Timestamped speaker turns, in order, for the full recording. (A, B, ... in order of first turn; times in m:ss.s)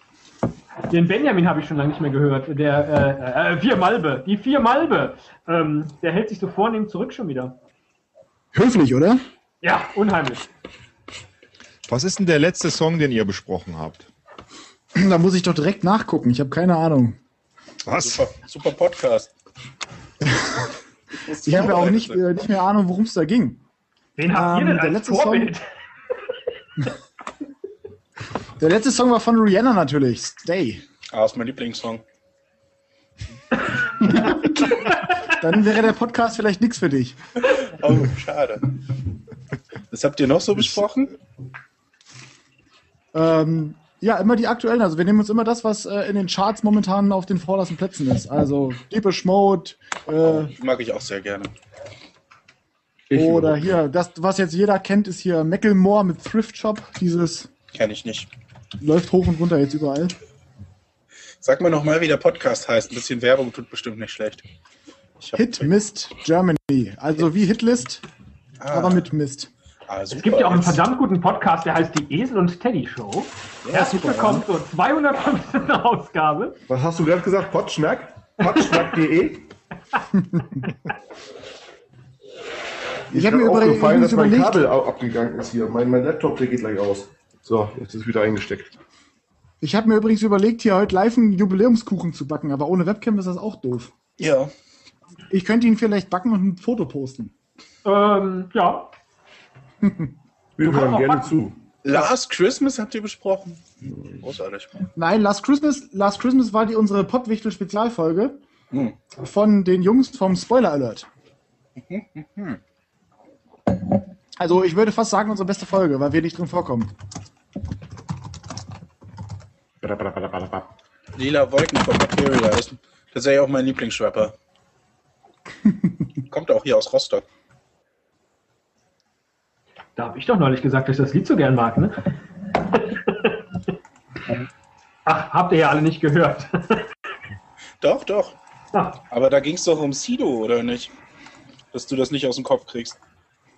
0:00.9-0:07.6 A
0:08.5-0:09.2 B
0:09.6-0:10.5 A
0:11.9-0:14.1 C
0:15.0-0:17.2 B
0:17.9-0:18.3 C
0:18.0-0:19.3 D
0:21.3-0:22.2 D
0:21.4-0:23.6 B
0:24.2-0:25.6 A
0:24.3-0:25.5 B
0:28.6-0:30.8 B
0:31.1-0:32.0 D
0:35.3-0:37.2 B
0:37.4-0:38.7 D
0:39.9-0:41.1 D
0:43.1-0:50.5 B
0:50.2-0:51.5 D
0:53.1-0:53.8 E
0:53.1-0:57.5 B
0:57.7-0:58.3 D
0:58.8-1:00.2 B
1:01.4-1:04.4 D
1:05.2-1:05.7 D
1:05.3-1:08.0 B
1:08.6-1:09.0 D
1:08.7-1:09.5 B
1:09.9-1:10.8 D
1:10.1-1:16.6 A
1:13.6-1:14.5 D
1:16.7-1:19.5 E
1:23.1-1:28.7 E
1:23.1-1:24.7 B
1:29.6-1:33.9 B
1:34.2-1:34.5 D
1:35.3-1:37.3 B
1:37.8-1:38.9 A
1:39.8-1:40.1 B
1:40.6-1:41.6 E
1:40.6-1:41.3 A
1:41.8-1:43.6 D
1:43.9-1:44.2 E
1:44.2-1:44.8 D
1:45.0-1:48.4 B
1:48.7-1:49.0 D
1:49.2-1:51.1 B
1:51.8-1:52.6 D
1:54.4-1:56.9 B
1:59.8-2:00.7 E
2:01.2-2:04.4 D
2:06.3-2:07.2 D
2:10.0-2:12.0 A
2:12.7-2:13.4 A
2:15.1-2:16.9 A
2:17.8-2:18.4 D
2:18.7-2:19.0 A
2:19.1-2:20.9 D
2:21.7-2:23.0 D